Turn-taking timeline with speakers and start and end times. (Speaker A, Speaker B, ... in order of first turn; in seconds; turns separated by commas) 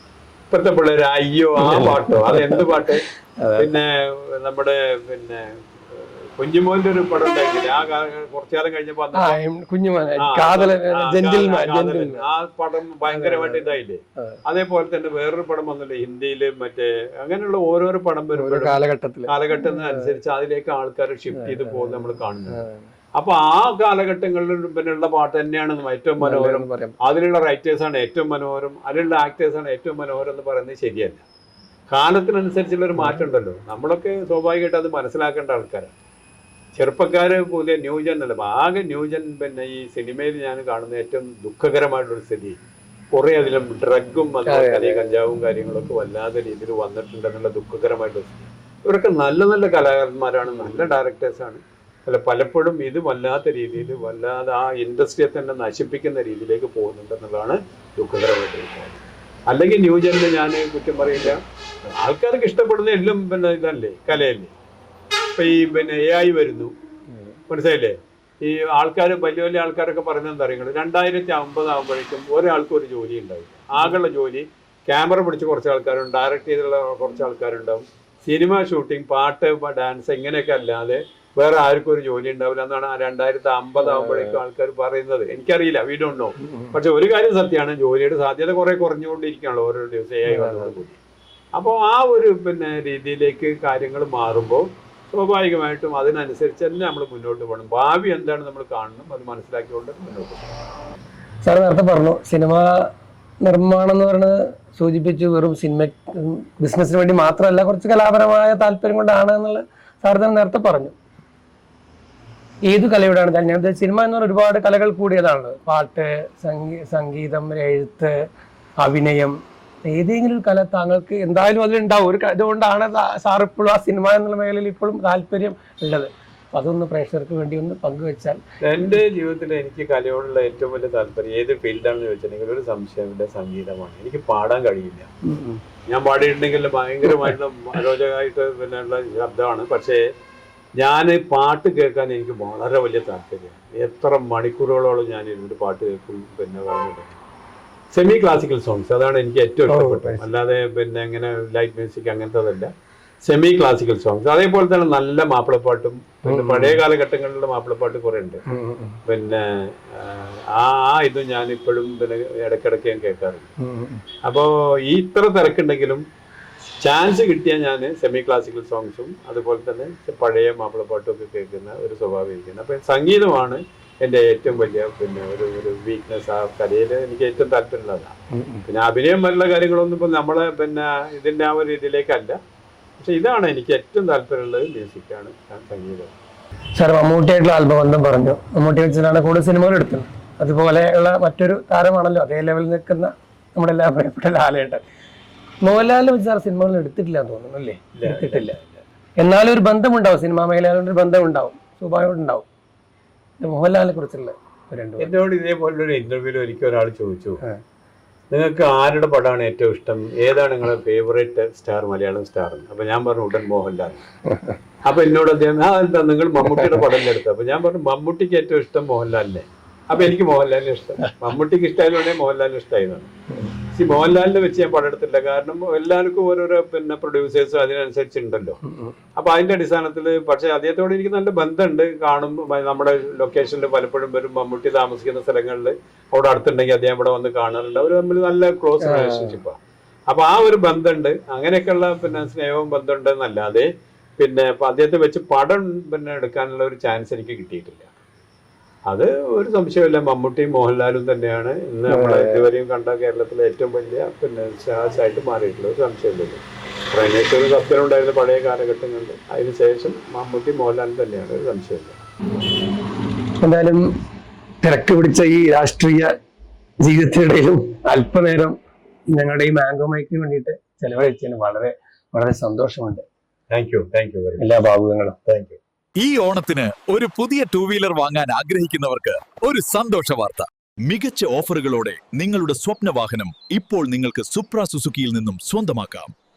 Speaker A: 0.5-3.0, Speaker B: 1.6-3.8, Speaker A: 3.6-9.4, Speaker B: 9.1-12.2, Speaker A: 10.2-22.6, Speaker B: 13.1-13.7, Speaker B: 18.4-20.1, Speaker B: 21.3-22.9, Speaker A: 23.1-31.2, Speaker B: 26.2-27.0, Speaker A: 31.9-35.9, Speaker B: 33.0-33.2, Speaker A: 36.8-42.6, Speaker A: 43.1-64.5, Speaker B: 44.5-45.1, Speaker A: 65.4-66.7, Speaker B: 67.1-67.4, Speaker A: 67.5-91.0, Speaker B: 83.8-84.4, Speaker B: 86.4-86.8, Speaker B: 90.3-90.8, Speaker A: 91.5-100.6, Speaker B: 101.4-102.9, Speaker B: 103.4-110.9, Speaker B: 112.7-118.3, Speaker B: 118.8-119.4, Speaker B: 119.9-128.4, Speaker A: 128.6-135.1, Speaker B: 135.2-135.6, Speaker A: 135.9-140.0, Speaker B: 137.1-137.3, Speaker A: 140.8-147.2, Speaker A: 147.9-152.7, Speaker B: 149.7-150.2, Speaker A: 153.3-158.4, Speaker B: 156.2-156.8, Speaker B: 158.5-159.0, Speaker A: 159.1-163.5, Speaker B: 163.6-164.0, Speaker A: 164.2-166.0, Speaker A: 166.8-178.1, Speaker B: 178.3-178.7, Speaker A: 178.7-182.4, Speaker A: 183.0-186.1, Speaker B: 186.8-194.8, Speaker B: 195.6-198.6, Speaker A: 197.9-198.8, Speaker B: 199.2-202.5, Speaker B: 203.4-205.1, Speaker A: 205.0-207.4, Speaker A: 208.3-214.1, Speaker B: 214.3-214.6, Speaker A: 214.9-223.1, Speaker B: 216.4-216.8, Speaker A: 223.7-228.6, Speaker B: 228.6-228.9, Speaker A: 229.2-239.6, Speaker B: 238.8-239.4, Speaker A: 240.1-247.9, Speaker A: 248.9-262.0, Speaker B: 251.9-252.5, Speaker B: 263.4-263.9, Speaker B: 264.6-266.1, Speaker B: 266.8-268.6, Speaker B: 269.1-273.1, Speaker A: 273.5-274.4, Speaker B: 274.4-275.1, Speaker A: 275.3-275.6, Speaker C: 276.0-286.1